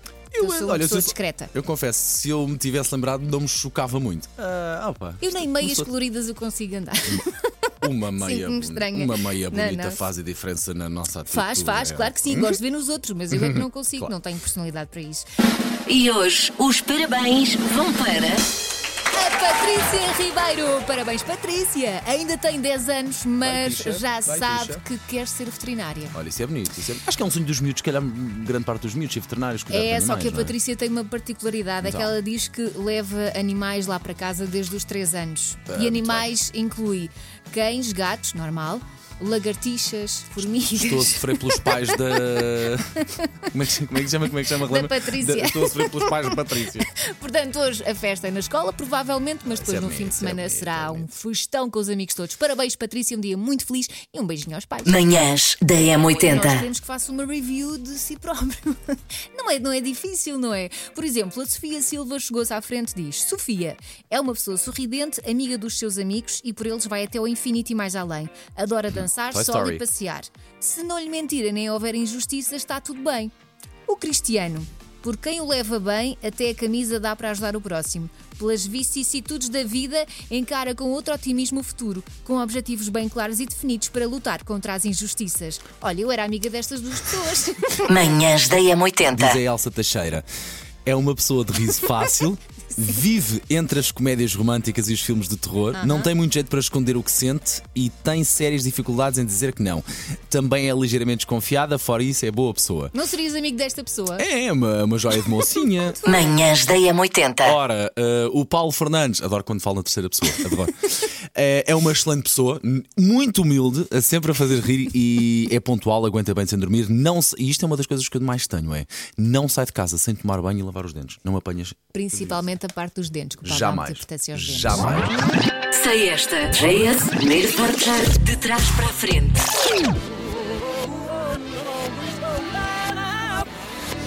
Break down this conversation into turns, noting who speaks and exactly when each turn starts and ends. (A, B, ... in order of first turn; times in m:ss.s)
0:00.3-0:05.9 A
0:00.4-0:01.5 B
0:05.2-0:10.0 B
0:07.8-0:12.6 A
0:11.3-0:15.3 B
0:13.3-0:14.1 A
0:15.9-0:18.4 C
0:19.1-0:26.2 B
0:23.4-0:24.8 A
0:26.1-0:30.6 A
0:29.7-0:42.0 B
0:31.8-0:32.1 A
0:35.7-0:36.3 A
0:40.8-0:46.9 A
0:44.5-0:55.0 B
0:49.5-0:51.1 A
0:54.8-0:56.7 C
0:56.2-1:13.3 B
1:09.3-1:09.8 A
1:13.9-1:28.0 B
1:27.9-1:29.4 C
1:29.1-1:30.3 A
1:30.9-1:42.9 A
1:35.7-1:36.1 B
1:42.9-1:44.3 B
1:44.2-1:46.0 A
1:45.9-1:46.4 B
1:46.1-1:47.6 C
1:47.4-2:02.4 A
2:01.9-2:04.9 B
2:03.4-2:05.2 A
2:05.7-2:09.5 C